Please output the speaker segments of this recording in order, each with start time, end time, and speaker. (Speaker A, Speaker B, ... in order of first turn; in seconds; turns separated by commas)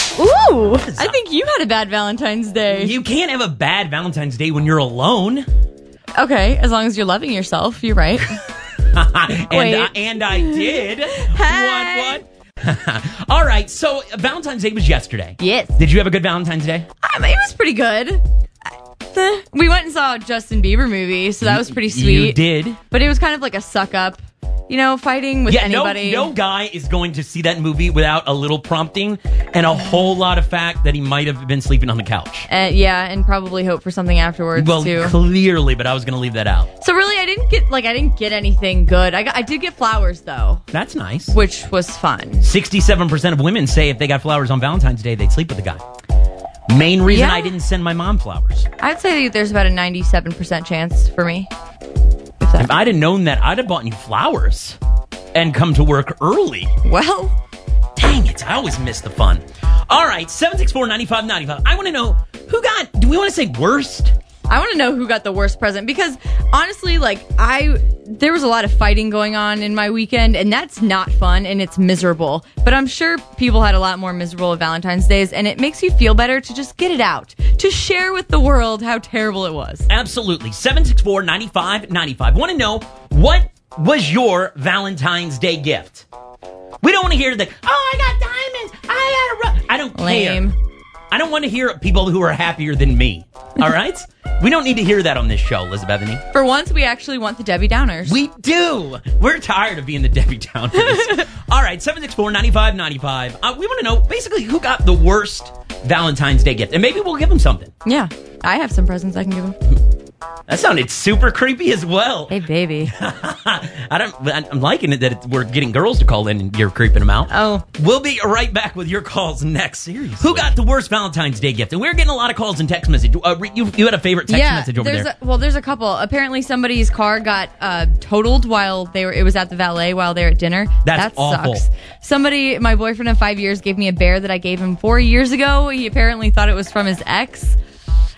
Speaker A: 0.1-2.9, Speaker B: 0.8-1.2, Speaker B: 2.7-5.5, Speaker A: 6.2-8.4, Speaker B: 8.9-16.9, Speaker A: 9.5-12.2, Speaker A: 15.4-15.8, Speaker A: 17.0-18.2, Speaker A: 19.1-26.3, Speaker B: 21.4-22.8, Speaker B: 25.5-32.5, Speaker A: 32.5-35.1, Speaker B: 34.5-36.7, Speaker A: 36.8-40.6, Speaker B: 40.7-41.3, Speaker A: 41.3-42.5, Speaker B: 42.4-45.8, Speaker B: 46.7-48.7, Speaker A: 47.0-47.5, Speaker A: 48.8-51.5, Speaker A: 52.4-52.7, Speaker B: 52.6-54.8, Speaker B: 55.3-56.7, Speaker A: 56.8-57.3, Speaker B: 58.0-64.1, Speaker A: 64.5-79.8, Speaker B: 79.9-86.0, Speaker B: 86.8-90.5, Speaker A: 89.9-90.5, Speaker B: 91.1-96.2, Speaker A: 96.3-98.2, Speaker B: 98.1-107.7, Speaker A: 100.8-101.2, Speaker A: 107.8-109.5, Speaker B: 110.5-125.1, Speaker A: 112.3-112.9, Speaker A: 117.3-117.6, Speaker A: 124.3-137.6, Speaker B: 130.8-131.6